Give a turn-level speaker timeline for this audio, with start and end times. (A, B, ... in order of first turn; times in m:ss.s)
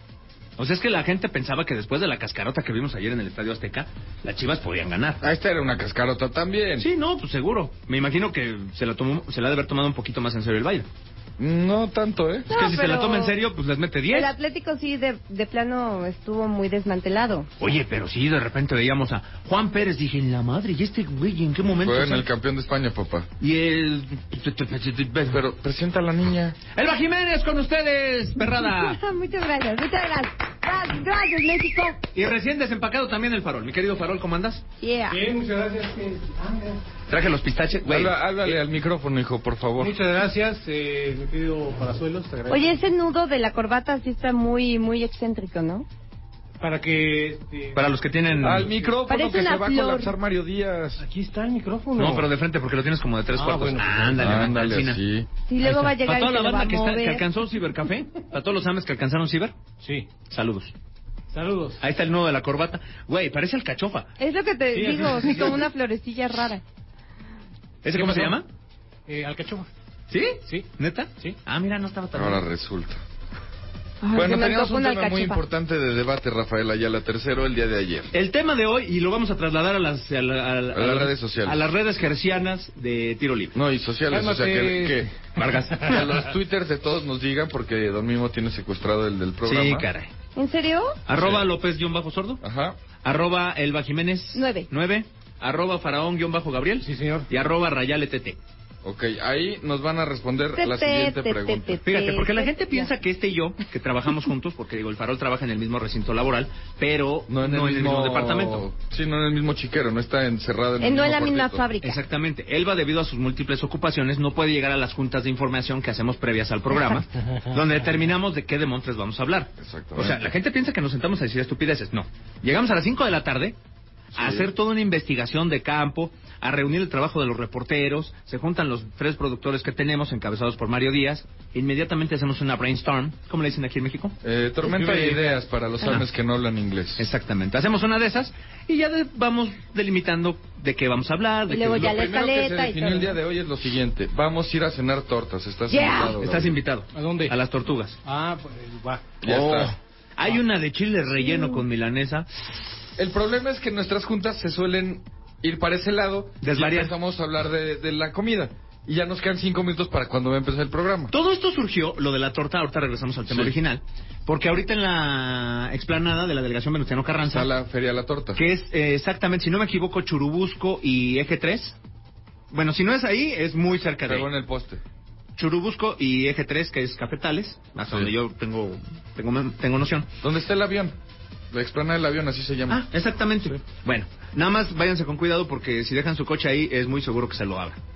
0:00.6-0:05.2 A
0:05.2-0:06.9 B
0:06.8-0:10.9 A
0:11.4-0:12.5 B
0:12.5-0:13.3 C
0:12.5-0:14.3 A
0:14.1-0:17.5 C
0:17.6-0:22.3 A
0:21.8-0:23.3 B
0:23.4-0:25.4 A
0:25.3-0:26.6 B
0:26.7-0:29.0 A
0:28.7-0:32.0 C
0:32.1-0:34.6 A
0:34.8-0:35.2 C
0:35.1-0:36.8 D
0:37.1-0:38.6 A
0:37.8-0:39.9 B
0:39.8-0:42.8 D
0:42.5-0:45.9 C
0:46.6-0:47.8 D
0:47.8-0:48.7 A
0:48.4-0:51.0 B
0:48.5-0:48.9 D
0:49.1-0:50.1 C
0:51.0-0:52.3 D
0:52.0-0:55.0 A
0:53.4-0:54.2 D
0:54.2-0:55.3 B
0:55.5-0:57.2 C
0:55.6-0:59.6 A
0:59.8-1:00.1 D
1:00.3-1:00.7 A
1:01.3-1:01.8 D
1:01.8-1:04.1 A
1:04.2-1:06.6 C
1:04.7-1:05.6 D
1:07.8-1:08.5 A
1:07.9-1:08.4 D
1:09.1-1:09.7 D
1:10.1-1:12.4 A
1:12.1-1:13.0 B
1:14.0-1:15.4 C
1:14.1-1:18.1 B
1:18.1-1:23.6 A
1:20.7-1:21.6 B
1:23.5-1:25.1 B
1:24.1-1:25.2 D
1:25.4-1:26.2 A
1:25.8-1:29.9 B
1:29.4-1:30.1 A
1:30.4-1:31.0 C
1:31.1-1:32.4 A
1:31.1-1:31.5 B
1:32.4-1:32.8 B
1:33.0-1:38.4 A
1:34.4-1:34.7 C
1:36.8-1:37.3 D
1:38.8-1:41.8 B
1:40.6-1:42.9 C
1:41.9-1:48.7 A
1:47.3-1:51.6 B
1:50.8-1:52.0 C
1:51.8-2:03.6 A
1:59.6-2:00.3 B
2:04.1-2:14.2 A
2:04.2-2:04.5 B
2:14.2-2:17.1 B
2:14.7-2:15.3 D
2:17.0-2:22.0 A
2:21.5-2:23.2 C
2:21.8-2:26.6 B
2:25.7-2:26.2 C
2:26.2-2:28.0 A
2:26.9-2:27.4 D
2:28.0-2:29.0 D
2:29.2-2:29.8 B
2:29.3-2:32.3 A
2:31.3-2:31.6 C
2:33.0-2:41.1 B
2:36.4-2:36.9 A
2:41.1-2:47.5 A
2:43.3-2:43.6 B
2:47.2-2:48.4 B
2:48.4-2:51.8 A
2:52.5-2:54.3 A
2:54.0-2:54.8 B
2:55.4-3:00.1 A
3:00.2-3:01.0 B
3:01.5-3:02.9 B
3:02.7-3:07.8 A